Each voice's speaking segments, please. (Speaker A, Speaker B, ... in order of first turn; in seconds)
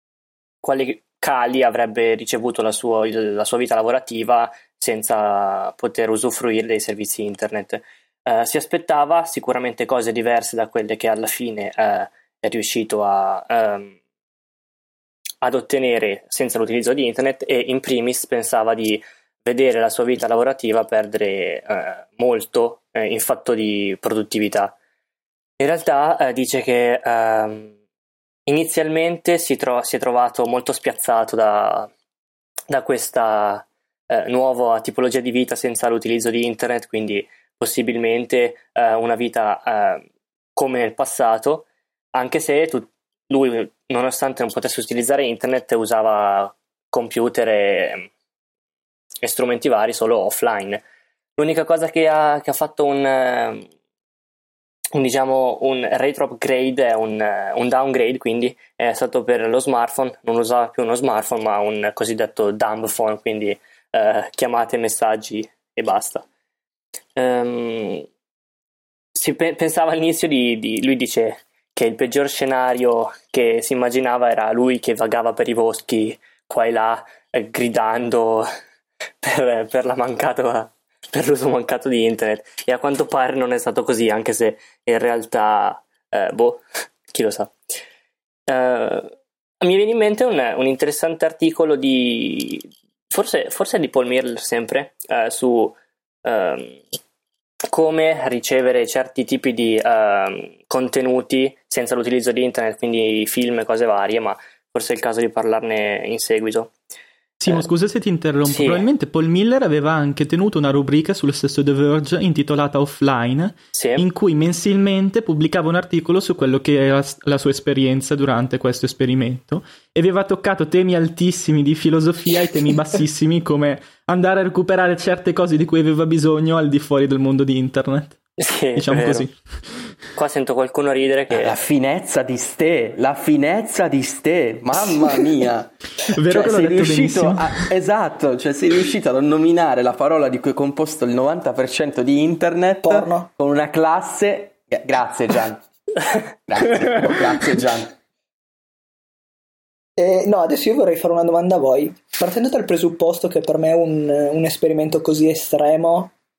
Speaker A: 0.6-13.9, 15.4-24.8, 25.6-27.7, 28.4-31.9, 32.7-40.0, 40.5-48.1, 49.2-50.8, 51.4-53.7, 54.9-66.2, 67.2-68.0, 69.1-78.5, 79.2-87.5, 88.5-96.8, 97.7-106.7, 108.4-108.8, 113.7-114.0, 128.4-129.2, 130.1-131.6
Speaker B: 107.4-128.2, 128.7-129.3, 136.0-137.6
Speaker C: 131.3-145.7, 146.4-147.9
Speaker D: 142.8-143.3, 150.0-156.1